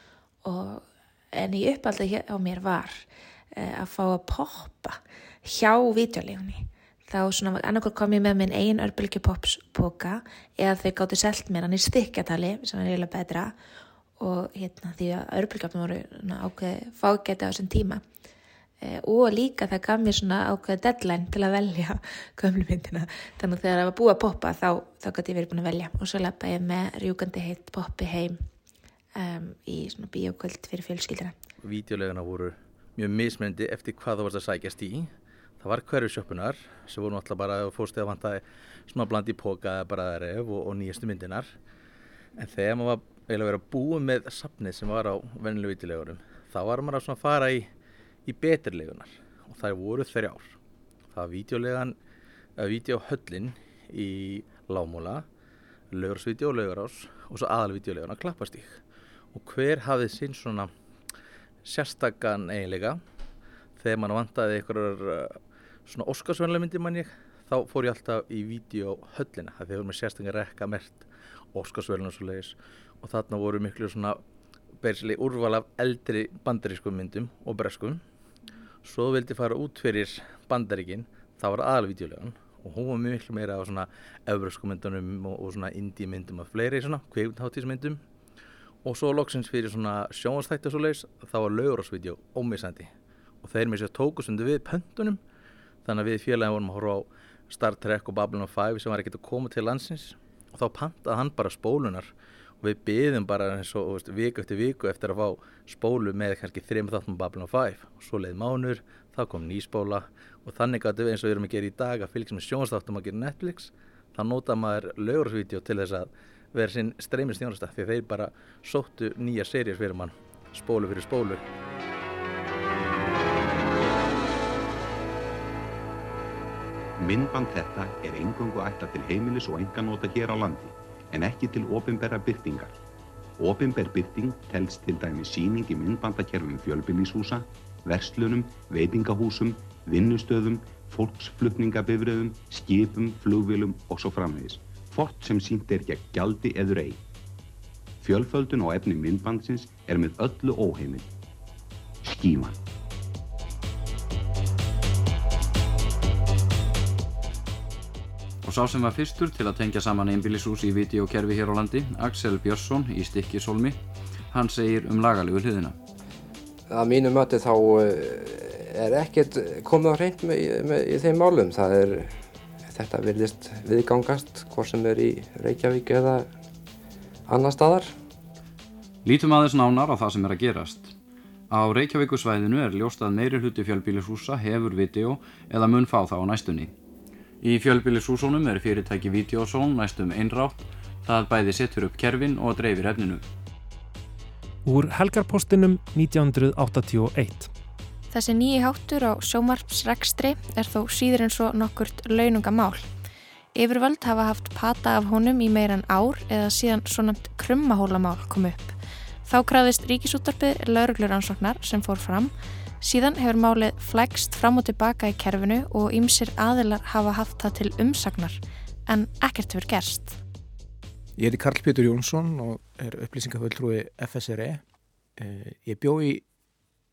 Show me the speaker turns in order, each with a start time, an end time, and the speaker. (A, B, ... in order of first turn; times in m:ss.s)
0:00.4-0:13.6 A
0:14.2-0:18.0 A
0:18.8-0:28.4 A
0:29.2-0:31.3 A
0:31.6-0:41.5 B
0:42.3-0:47.7 B
0:48.2-0:50.6 B
0:51.1-0:52.0 B
0:52.6-0:55.2 B
0:55.9-0:58.8 B
0:59.3-1:00.7 B
1:01.6-1:03.0 B
1:03.8-1:14.2 B
1:14.8-1:18.0 B
1:18.8-1:28.0 B
1:28.8-1:32.9 B
1:33.4-1:35.2 B
1:35.8-2:01.4 B
2:07.0-2:12.8 C
2:13.4-2:27.0 C
2:28.0-2:31.1 C
2:32.0-2:32.6 C
2:38.4-2:43.8 D
2:44.3-2:45.8 D
2:46.7-2:56.4 E
2:57.3-2:58.0 E
2:59.0-3:00.9 D
3:01.5-3:06.7 D
3:07.4-3:13.2 D
3:14.6-3:17.5 F
3:18.1-3:22.9 G
3:23.5-3:40.2 G
3:41.2-3:44.6 H
3:45.2-3:46.2 H